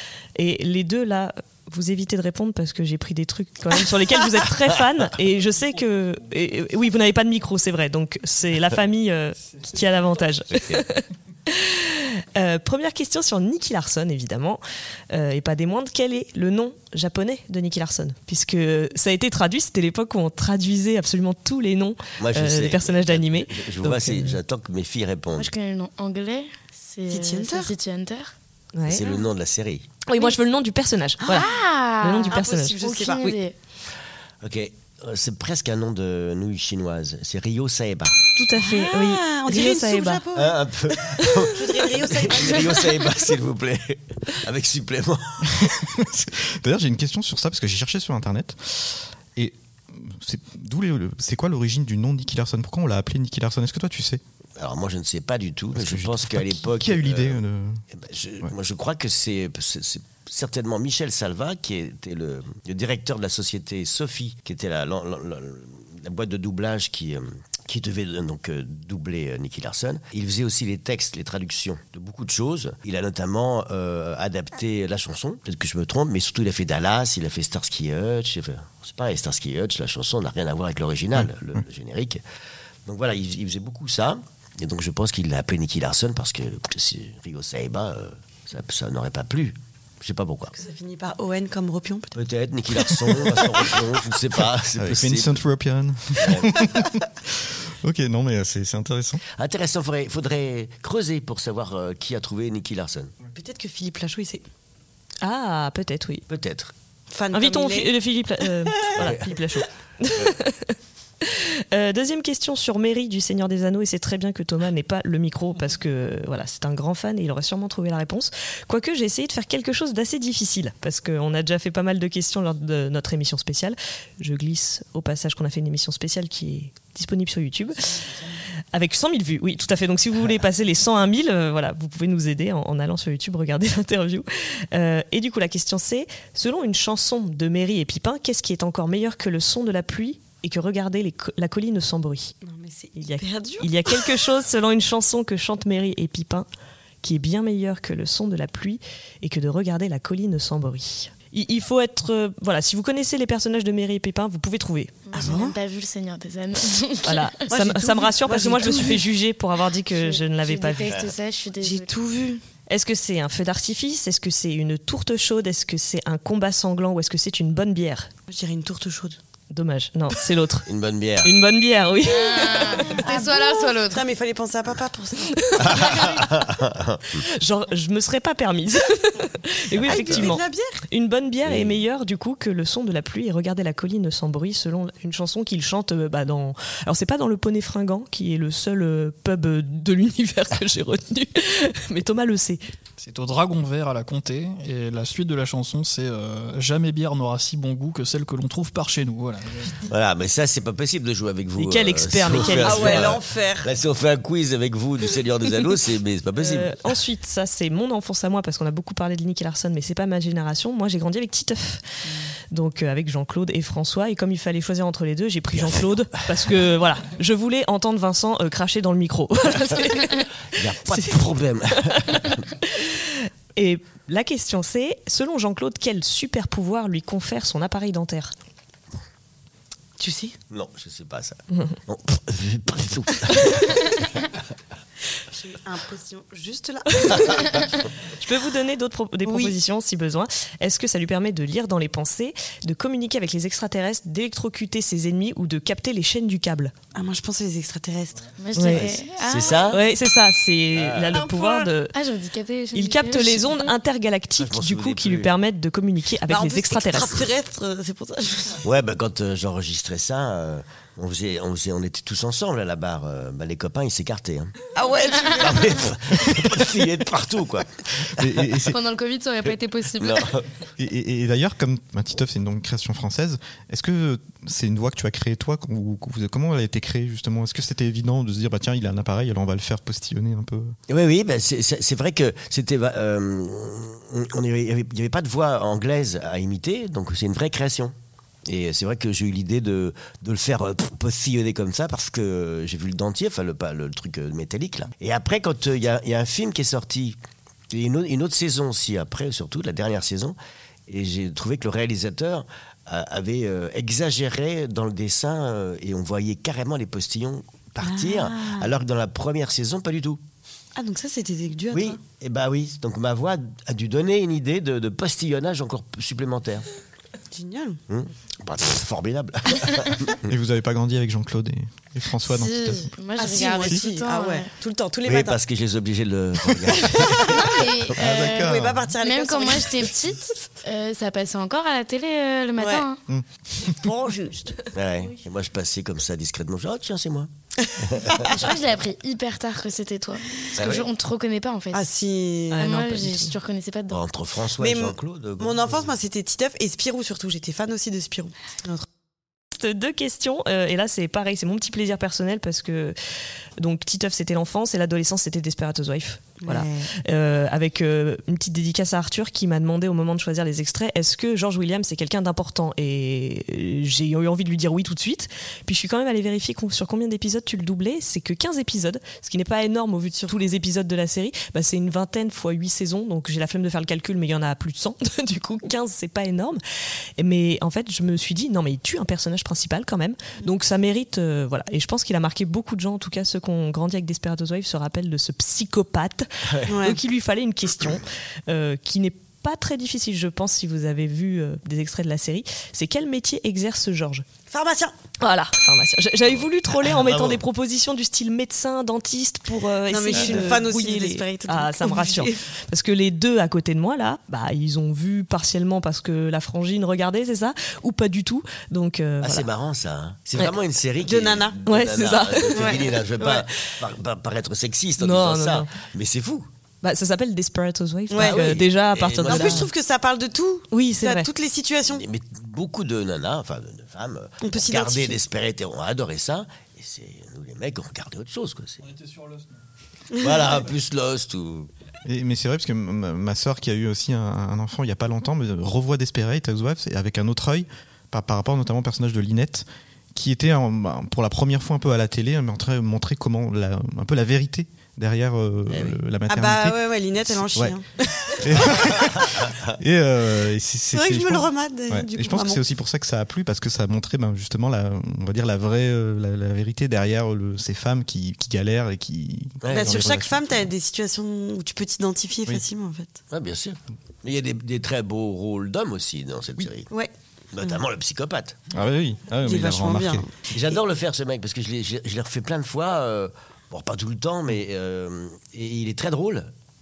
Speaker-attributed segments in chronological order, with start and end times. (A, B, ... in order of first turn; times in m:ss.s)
0:00.4-0:24.4 A
0:22.2-0:25.5 B
0:25.3-0:28.3 C
0:27.1-0:27.7 D
0:28.7-0:29.1 A
0:28.9-0:29.9 B
0:30.0-0:31.5 A
0:31.3-0:33.5 C
0:32.0-0:32.8 A
0:32.3-0:33.4 D
0:34.4-0:38.2 B
0:38.4-0:40.2 A
0:38.6-0:43.1 D
0:40.3-0:45.5 B
0:45.5-0:54.2 E
0:54.6-0:57.4 B
0:55.7-0:57.8 E
0:57.9-1:22.2 B
1:22.8-1:30.5 B
1:30.5-1:32.2 D
1:32.1-1:35.4 B
1:34.8-1:39.2 E
1:36.2-1:36.7 B
1:39.3-1:43.1 B
1:43.3-1:44.4 D
1:45.2-1:46.2 A
1:46.3-1:46.7 B
1:47.1-1:47.9 D
1:47.3-2:08.0 A
1:48.9-1:49.4 B
2:08.7-2:22.3 A
2:22.4-2:24.2 D
2:23.0-2:26.5 A
2:27.0-2:35.0 A
2:35.1-2:37.3 C
2:35.1-2:35.6 D
2:37.0-2:41.0 A
2:37.5-2:39.1 D
2:39.9-2:41.9 C
2:41.6-2:42.4 D
2:42.7-2:48.1 A
2:48.3-2:49.2 D
2:49.5-2:50.7 A
2:50.6-2:51.3 B
2:51.2-2:53.0 A
2:52.0-2:54.0 C
2:52.8-2:56.0 D
2:55.4-2:56.2 A
2:55.6-2:57.2 B
2:57.2-3:12.6 A
2:59.8-3:00.8 D
2:59.9-3:00.3 B
3:01.4-3:01.8 B
3:13.0-3:19.7 F
3:19.9-3:26.7 B
3:21.6-3:23.2 A
3:22.4-3:23.7 D
3:26.4-3:31.8 A
3:32.5-3:48.3 A
3:35.5-3:35.9 B
3:40.5-3:42.4 B
3:50.0-3:50.3 D
3:50.5-3:54.1 B
3:55.3-3:57.8 D
3:58.2-4:06.7 A
3:59.2-3:59.6 D
4:06.9-4:08.3 D
4:08.4-4:09.7 C
4:08.5-4:08.9 A
4:08.7-4:09.8 B
4:08.8-4:09.7 D
4:09.7-4:11.9 A
4:10.7-4:11.2 B
4:11.2-4:11.7 D
4:11.9-4:13.6 C
4:12.7-4:17.2 A
4:14.4-4:15.3 B
4:16.3-4:18.6 D
4:18.6-4:24.5 B
4:24.7-4:25.9 D
4:25.4-4:28.6 B
4:28.2-4:28.8 E
4:28.7-4:30.3 C
4:30.0-4:30.4 B
4:30.8-4:40.7 E
4:40.9-4:47.9 B
4:48.5-4:57.2 B
4:57.7-5:00.4 B
5:00.9-5:10.2 B
5:07.8-5:08.7 D
5:10.7-5:12.0 D
5:11.7-5:16.6 B
5:17.3-5:17.8 D
5:17.9-5:20.2 B
5:20.2-5:22.9 E
5:22.3-5:24.5 C
5:23.2-5:25.4 D
5:25.0-5:27.6 B
5:26.9-5:27.3 D
5:27.3-5:33.0 C
5:28.0-5:28.9 E
5:28.3-5:29.9 D
5:32.6-5:32.8 D
5:33.1-5:33.7 E
5:33.6-5:34.7 D
5:34.7-5:38.4 B
5:38.2-5:41.8 C
5:40.6-5:40.8 B
5:41.7-5:42.9 D
5:42.5-5:43.3 A
5:42.6-5:44.0 C
5:43.9-5:45.9 B
5:44.6-5:48.8 D
5:49.6-5:53.0 A
5:53.6-6:16.6 A
5:56.4-5:56.9 D
6:17.2-6:34.2 A
6:26.5-6:26.8 B
6:26.7-6:27.0 D
6:34.5-6:34.9 D
6:35.2-6:49.5 A
6:36.8-6:37.4 B
6:39.9-6:42.4 D
6:40.1-6:40.6 B
6:49.2-6:56.5 B
6:51.0-6:51.6 D
6:51.6-6:53.0 A
6:52.5-6:53.4 D
6:55.0-6:55.7 A
6:56.8-6:59.7 A
6:58.1-6:58.6 D
6:58.1-6:59.7 B
6:59.2-7:02.0 D
7:00.7-7:01.3 A
7:01.9-7:08.9 B
7:04.4-7:05.2 D
7:08.9-7:09.4 F
7:10.2-7:11.7 B
7:10.2-7:10.5 D
7:12.0-7:27.8 E
7:25.7-7:26.0 B
7:26.3-7:28.5 D
7:28.4-7:40.6 E
7:28.8-7:29.7 B
7:30.9-7:32.6 D
7:39.6-7:40.1 B
7:39.7-7:43.2 D
7:43.3-7:46.9 B
7:47.5-7:48.6 B
7:48.7-7:50.3 E
7:49.4-7:50.3 D
7:50.5-7:56.5 B